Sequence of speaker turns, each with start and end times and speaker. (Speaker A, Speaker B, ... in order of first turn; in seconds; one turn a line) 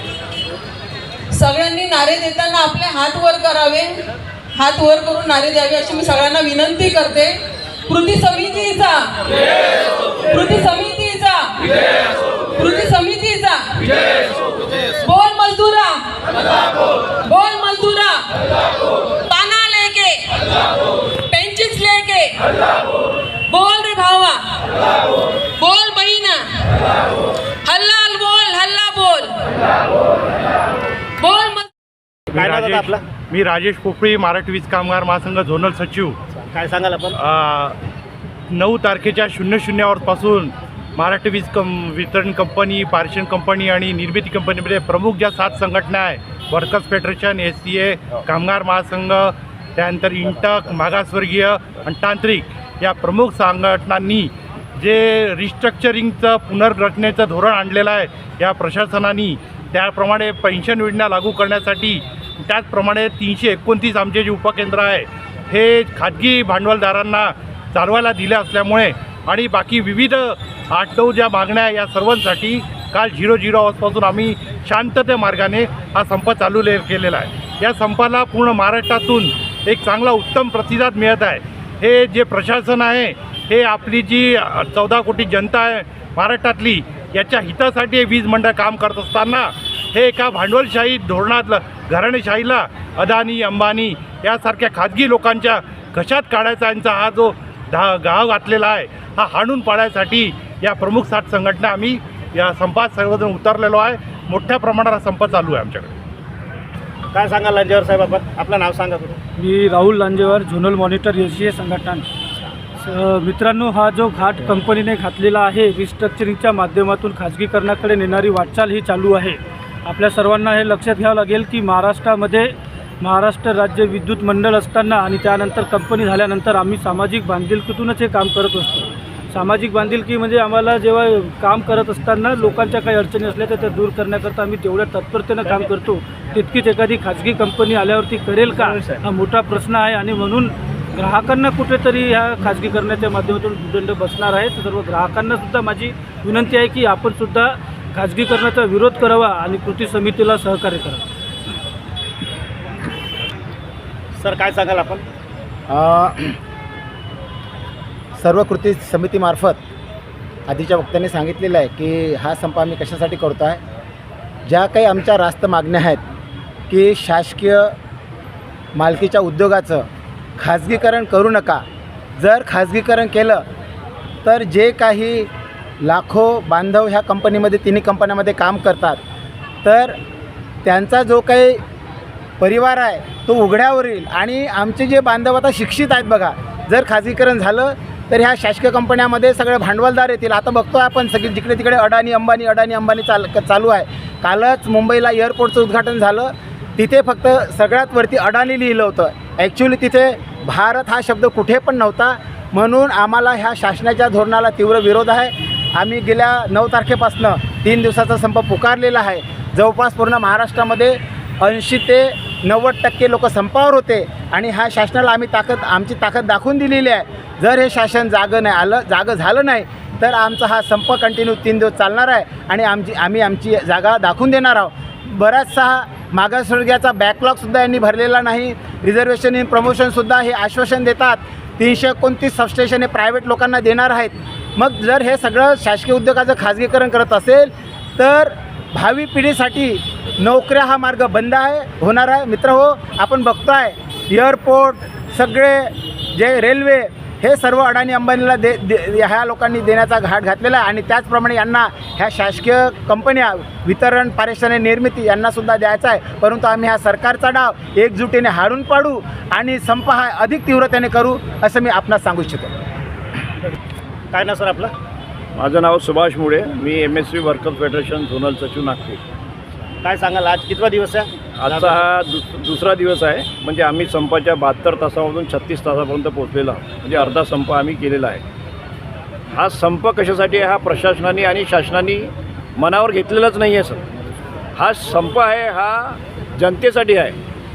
Speaker A: 1.3-4.0
Speaker A: 4.5-9.5
Speaker A: 10.2-11.8
Speaker A: 12.5-14.2
Speaker A: 15.0-16.0
Speaker A: 17.2-18.3
Speaker A: 19.2-20.3
Speaker A: 21.3-22.4
Speaker A: 23.5-24.7
Speaker A: 25.6-26.6
Speaker A: 27.6-29.4
Speaker A: 31.2-31.7
Speaker B: 32.3-33.0
Speaker C: 32.4-36.2
Speaker B: 36.5-37.2
Speaker C: 37.2-37.8
Speaker C: 38.5-105.9
Speaker B: 107.1-109.2
Speaker D: 109.4-112.1
Speaker D: 112.8-151.0
Speaker B: 154.2-155.0
Speaker E: 155.7-156.3
Speaker E: 158.2-159.6
Speaker E: 160.5-163.6
Speaker E: 164.5-166.0
Speaker E: 166.7-167.8
Speaker E: 168.8-169.9
Speaker E: 170.4-171.6
Speaker E: 172.2-173.4
Speaker E: 174.2-175.3
Speaker E: 175.8-179.0
Speaker E: 179.6-180.0
Speaker E: 180.6-181.6
Speaker E: 182.4-262.5
Speaker B: 264.1-264.7
Speaker F: 265.4-269.0
Speaker B: 269.8-271.9
Speaker F: 271.4-278.2
Speaker F: 279.3-283.8
Speaker F: 284.6-287.2